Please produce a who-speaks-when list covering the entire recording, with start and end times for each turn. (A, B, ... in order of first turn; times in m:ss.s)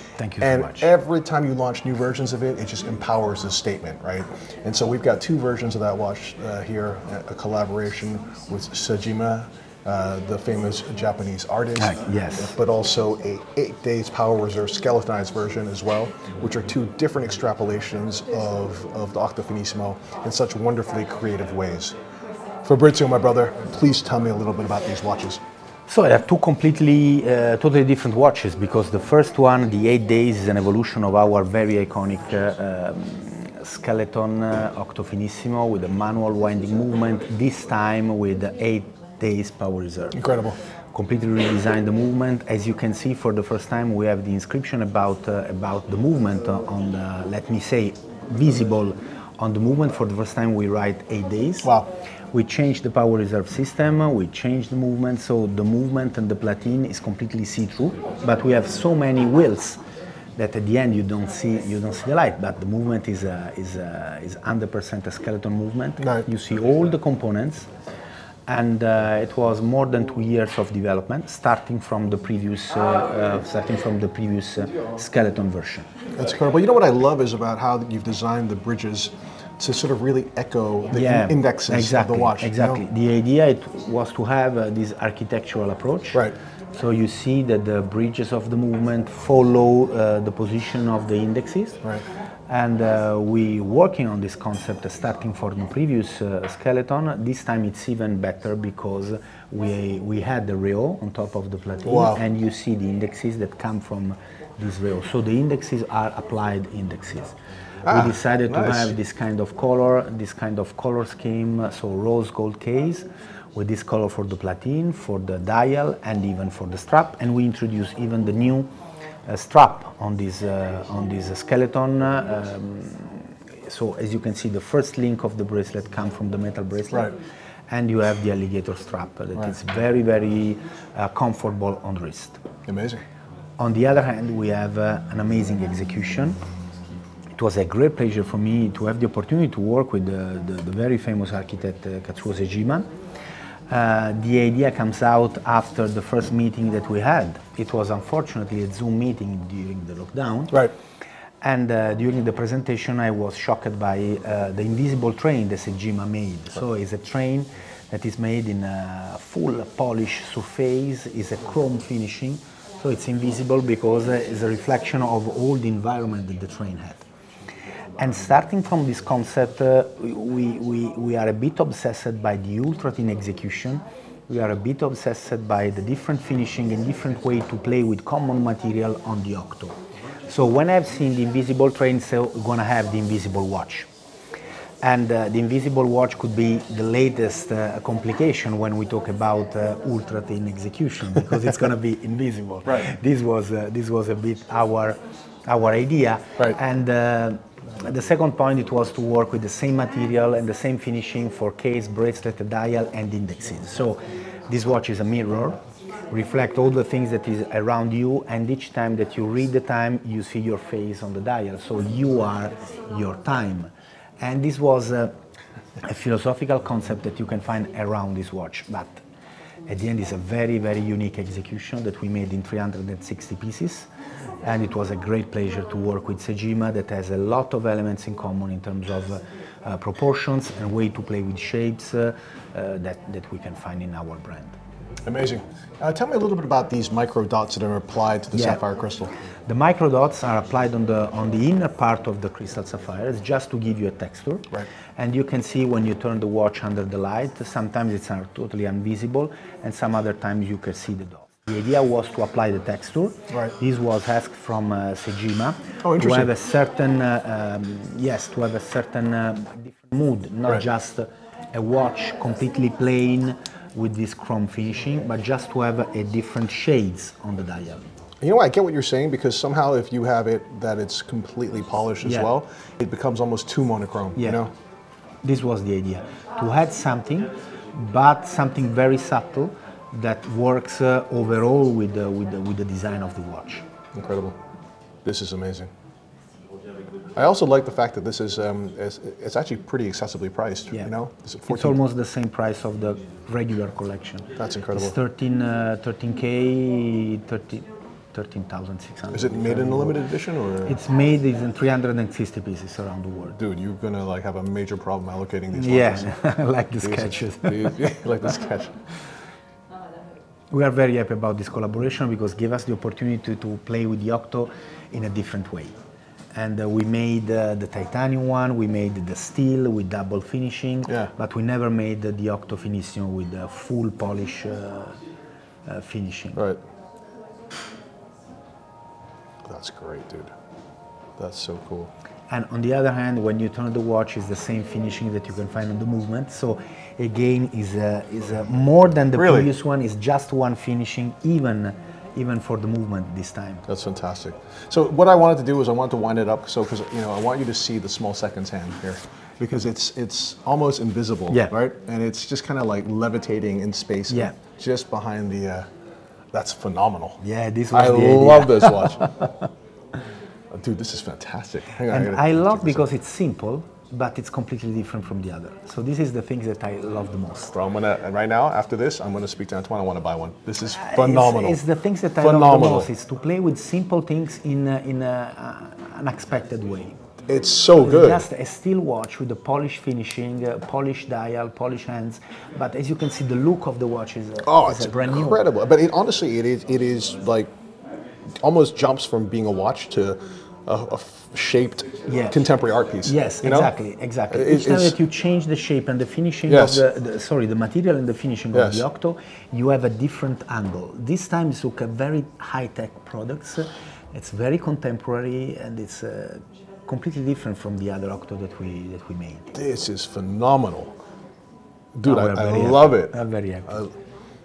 0:00.2-0:00.9 A
0:00.4-0:22.0 B
0:11.8-0:12.6 A
0:22.6-0:25.4 B
0:25.9-0:40.2 A
0:40.1-0:40.6 B
0:40.9-0:51.7 A
0:51.6-0:51.9 B
0:52.3-0:59.8 A
1:00.4-1:07.7 A
1:06.0-1:06.3 B
1:08.5-1:15.9 A
1:16.2-1:22.8 B
1:20.9-1:26.2 A
1:26.7-1:31.8 A
1:32.5-1:47.4 A
1:41.8-1:42.2 B
1:47.9-1:49.0 B
1:47.9-1:58.7 A
1:59.3-2:07.1 A
2:07.7-2:12.4 A
2:12.7-2:13.0 B
2:13.6-2:16.4 A
2:17.4-2:22.9 A
2:23.7-2:30.6 A
2:31.4-2:47.0 A
2:48.0-2:59.8 A
3:00.3-3:03.9 A
3:04.8-3:25.6 A
3:26.1-3:35.1 A
3:35.8-3:39.0 A
3:39.7-3:43.9 A
3:44.4-3:54.6 A
3:55.1-3:59.1 B
3:58.3-3:58.6 A
3:59.5-4:27.8 A
4:15.8-4:16.3 B
4:28.2-4:34.5 B
4:32.0-4:32.3 A
4:35.2-4:43.6 A
4:44.0-4:44.4 B
4:45.0-4:45.7 B
4:47.2-4:51.8 B
4:51.5-5:00.0 A
4:54.4-4:55.0 B
4:59.1-5:00.8 B
5:00.6-5:03.4 A
5:03.4-5:06.2 B
5:05.5-5:08.0 A
5:06.8-5:08.8 B
5:10.5-5:15.7 A
5:16.4-5:25.0 A
5:25.7-5:26.4 A
5:29.4-5:30.3 B
5:31.2-5:31.9 B
5:32.3-5:43.7 A
5:39.2-5:39.5 B
5:43.7-5:55.7 B
5:54.1-5:54.4 A
5:56.3-5:57.2 B
5:57.2-5:59.5 A
5:57.7-5:59.1 B
6:00.5-6:02.8 B
6:01.9-6:07.6 A
6:07.5-6:11.6 B
6:10.7-6:17.0 A
6:12.2-6:12.9 B
6:17.3-6:18.2 B
6:17.8-6:25.4 A
6:24.4-6:27.5 B
6:28.4-6:33.7 B
6:32.1-6:32.4 A
6:33.0-6:49.5 A
6:34.3-6:35.0 B
6:36.5-6:36.8 B
6:38.5-6:38.8 B
6:49.5-6:50.9 B
6:52.0-6:53.2 B
6:52.0-6:53.9 A